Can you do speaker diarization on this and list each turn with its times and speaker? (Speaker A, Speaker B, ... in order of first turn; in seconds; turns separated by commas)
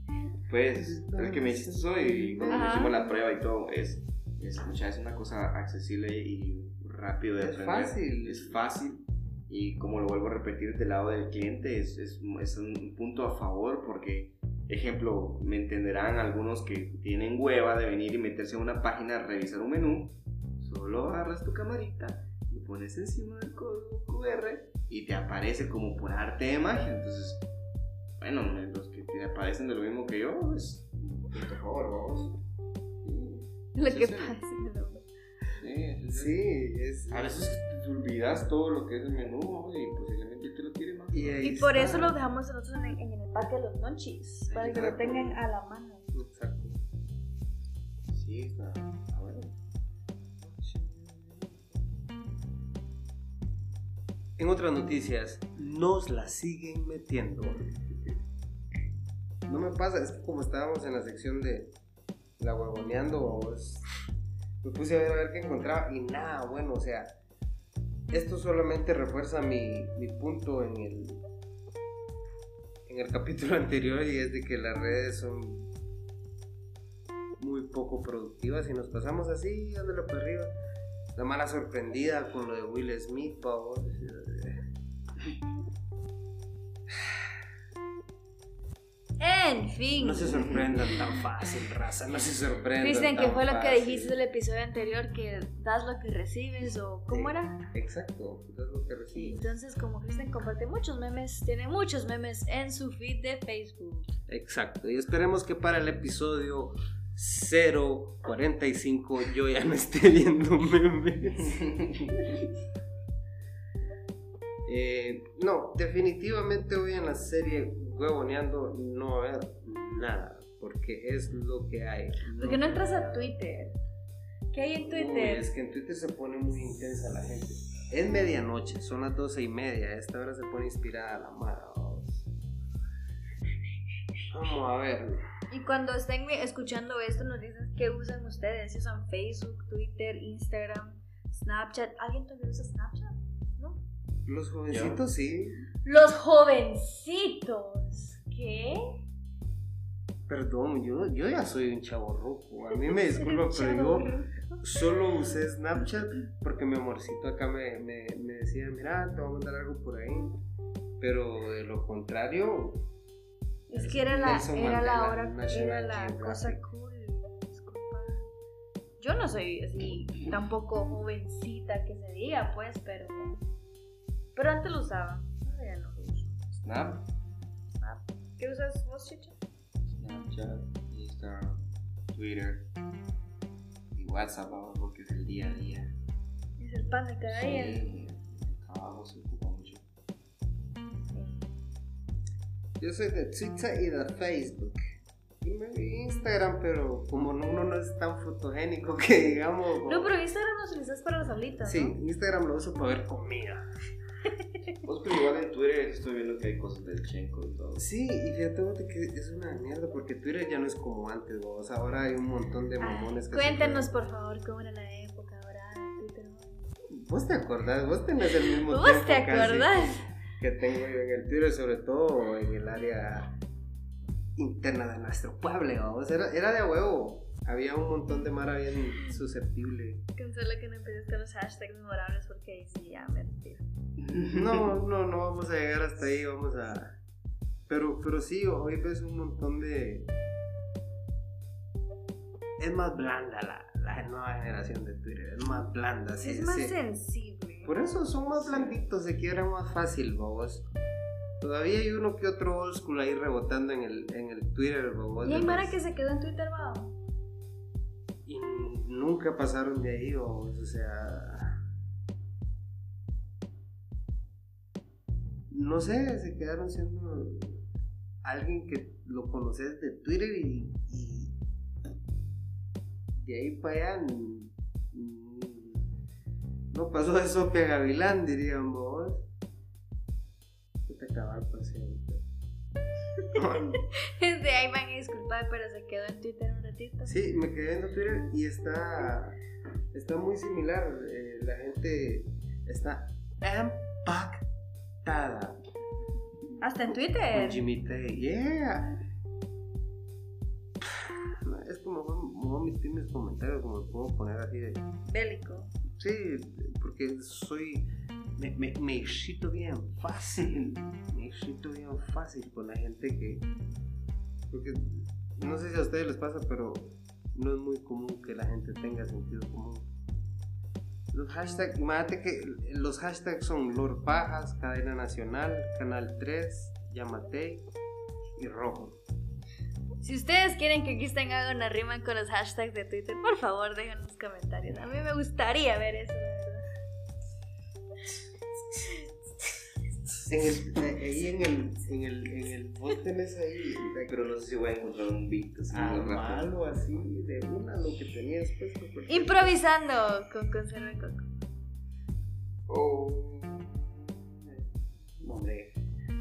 Speaker A: 0.5-27.4, Speaker B: 0.8-2.9, Speaker C: 2.5-3.0, Speaker B: 7.4-8.7, Speaker A: 28.2-32.4, Speaker A: 33.0-34.4, Speaker C: 33.8-35.0, Speaker A: 35.6-36.4, Speaker B: 36.1-37.5, Speaker A: 37.1-41.4, Speaker B: 41.1-42.2, Speaker C: 41.4-46.1, Speaker B: 44.5-45.3, Speaker A: 44.5-45.4, Speaker B: 46.1-46.8, Speaker A: 48.1-49.6, Speaker A: 50.4-51.8, Speaker B: 54.4-57.7, Speaker B: 59.5-61.7, Speaker B: 62.4-63.8, Speaker B: 64.6-67.1, Speaker B: 68.1-71.2, Speaker B: 72.9-75.7, Speaker B: 77.4-80.5, Speaker B: 81.2-84.6, Speaker C: 89.2-90.4, Speaker B: 89.9-94.1, Speaker A: 90.3-90.7, Speaker C: 92.8-97.6, Speaker B: 97.1-99.4, Speaker C: 99.1-104.1, Speaker B: 104.3-111.6, Speaker A: 111.4-112.3, Speaker B: 114.7-123.3, Speaker C: 122.4-123.8, Speaker C: 124.5-125.5, Speaker B: 124.8-132.3, Speaker B: 134.3-135.2, Speaker C: 135.5-143.8, Speaker B: 144.3-145.6, Speaker A: 144.7-145.0, Speaker C: 145.8-149.0, Speaker B: 150.3-154.1, Speaker C: 152.7-154.6, Speaker B: 154.6-160.4, Speaker B: 161.0-162.9, Speaker C: 163.7-168.3, Speaker B: 163.7-166.6, Speaker C: 169.0-173.4, Speaker C: 174.3-176.3, Speaker A: 176.5-177.1, Speaker C: 177.8-179.3, Speaker A: 179.9-182.7, Speaker A: 183.9-186.0, Speaker C: 186.6-187.8, Speaker A: 187.3-189.8, Speaker C: 191.1-191.5, Speaker B: 192.8-194.8, Speaker B: 195.4-200.1, Speaker C: 199.8-201.9, Speaker B: 201.6-203.7, Speaker A: 204.8-207.8, Speaker B: 207.8-213.9, Speaker C: 212.8-216.7, Speaker B: 216.9-223.3, Speaker C: 218.7-220.1, Speaker B: 224.4-230.0, Speaker C: 230.2-233.6, Speaker A: 234.0-234.4, Speaker B: 234.3-237.0, Speaker B: 237.7-240.1, Speaker B: 242.6-246.7, Speaker C: 246.2-247.7, Speaker B: 247.7-250.7, Speaker A: 248.4-248.9, Speaker B: 251.4-255.8, Speaker C: 255.2-256.9, Speaker B: 258.3-261.6, Speaker B: 265.5-267.6, Speaker B: 268.2-271.3, Speaker B: 273.2-275.8, Speaker B: 276.7-279.2, Speaker B: 280.9-282.2, Speaker B: 283.3-283.8, Speaker C: 283.9-287.1, Speaker B: 287.1-289.4, Speaker B: 289.9-294.5, Speaker B: 295.0-295.6, Speaker C: 296.6-297.6, Speaker B: 297.3-299.0, Speaker B: 300.8-304.9, Speaker C: 305.1-305.7, Speaker B: 305.9-313.4, Speaker A: 310.4-310.7, Speaker B: 314.5-319.9, Speaker B: 321.1-327.7, Speaker B: 328.4-329.0, Speaker C: 330.0-336.7, Speaker B: 340.3-344.1, Speaker A: 344.0-346.8, Speaker B: 345.7-349.5, Speaker C: 349.1-351.3, Speaker A: 352.7-354.6, Speaker B: 355.2-355.7